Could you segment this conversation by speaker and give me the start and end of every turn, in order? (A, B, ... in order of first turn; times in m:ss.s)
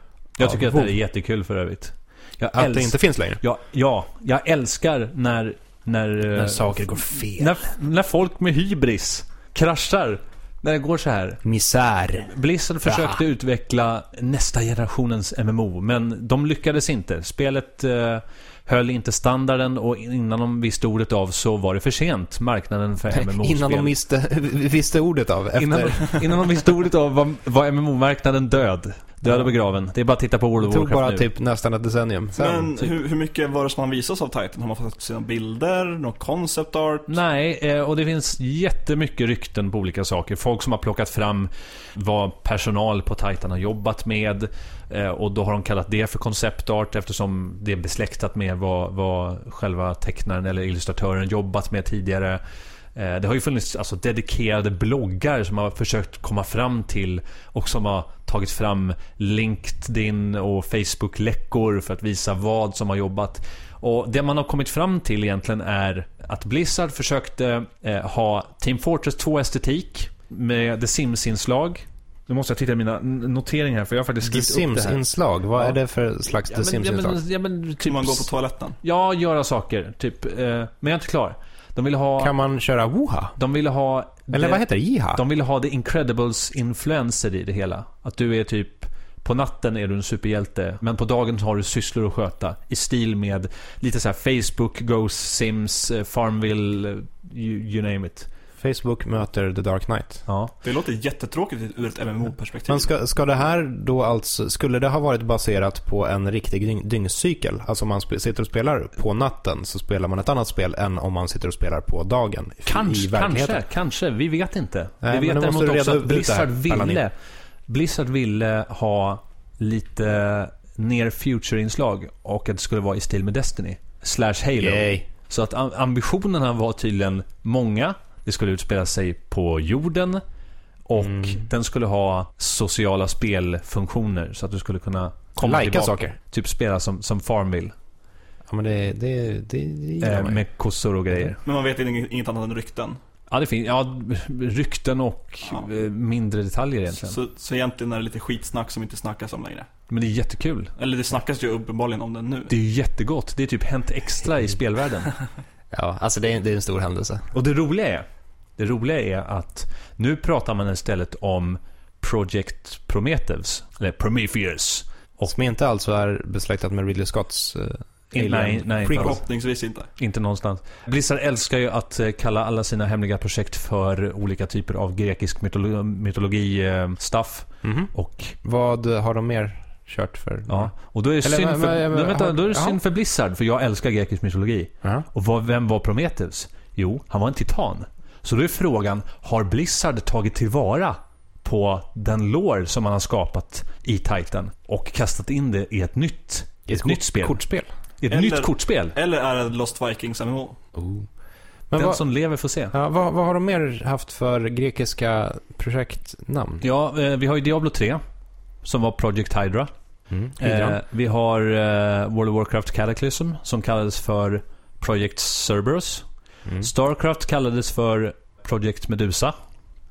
0:00.4-0:11.4 A
0:00.4-0:00.9 B
0:02.5-0:03.4 B
0:06.4-0:07.6 B
0:11.4-0:13.2 B
0:12.2-0:23.9 A
0:23.1-0:26.2 B
0:25.6-0:31.3 A
0:30.6-0:32.7 B
0:32.4-0:37.2 C
0:37.1-0:52.4 A
0:53.0-1:15.0 A
1:14.2-1:17.2 B
1:16.5-1:18.3 A
1:17.8-1:18.8 C
1:18.8-1:22.3 A
1:22.2-1:23.4 B
1:23.4-1:24.6 A
1:24.3-1:25.2 B
1:25.1-1:38.3 A
1:38.6-1:40.2 B
1:40.3-1:40.5 A
1:40.6-1:42.9 C
1:42.7-1:53.6 B
1:52.7-1:57.1 A
1:55.0-1:57.0 B
1:57.7-2:10.2 A
2:04.6-2:05.1 B
2:10.9-2:17.7 A
2:11.0-2:11.4 B
2:15.4-2:16.2 B
2:18.5-2:20.4 B
2:20.0-2:21.4 A
2:21.4-2:23.0 C
2:23.3-2:27.2 A
2:26.9-2:29.7 C
2:29.9-2:30.7 A
2:30.8-2:32.5 C
2:32.5-2:35.1 A
2:35.7-2:37.3 B
2:37.3-2:38.1 A
2:38.6-2:45.3 A
2:45.3-2:49.2 B
2:48.1-2:49.2 A
2:48.9-2:49.9 C
2:50.0-2:58.4 A
2:57.6-2:57.9 B
2:58.4-3:00.7 B
3:00.5-3:17.4 A
3:01.2-3:02.8 B
3:16.7-3:17.7 B
3:18.0-3:19.0 A
3:18.1-3:20.6 C
3:20.8-3:21.1 B
3:21.7-3:22.0 B
3:21.8-3:22.8 A
3:22.7-3:26.6 B
3:26.6-3:28.0 A
3:28.6-3:29.7 A
3:30.1-3:30.8 B
3:30.4-3:36.1 A
3:36.6-3:39.4 A